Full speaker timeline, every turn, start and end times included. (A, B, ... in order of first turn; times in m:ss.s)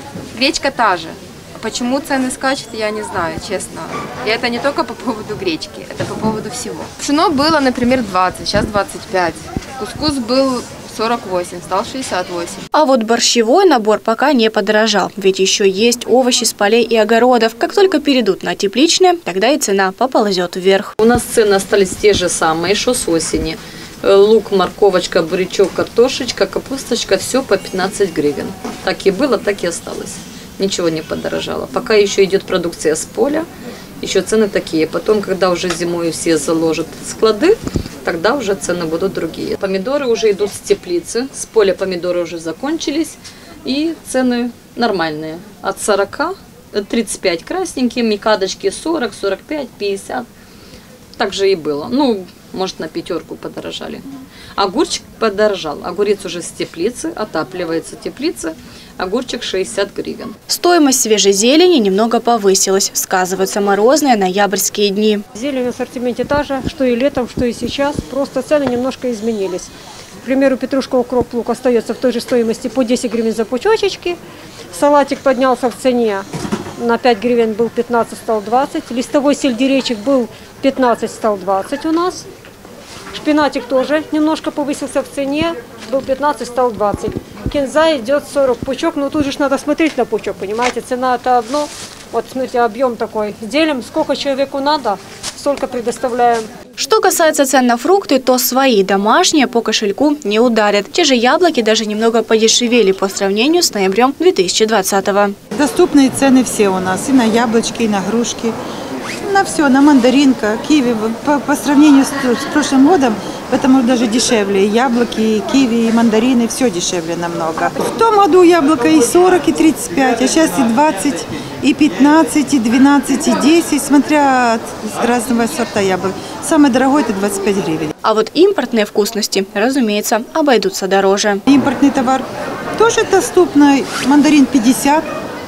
0:00.3-0:12.7 A
0:12.7-0:20.9 B
0:21.0-0:33.5 C
0:34.0-0:50.3 C
0:51.2-0:54.0 C
0:54.6-1:00.4 C
1:00.5-1:05.2 B
1:05.3-1:09.7 D
1:10.2-1:14.2 D
1:14.7-1:22.2 D
1:23.1-1:36.5 D
1:36.8-1:45.3 B
1:45.5-1:48.6 E
1:49.2-2:07.9 E
2:08.0-2:11.4 B
2:11.5-2:12.2 E
2:12.8-2:15.1 E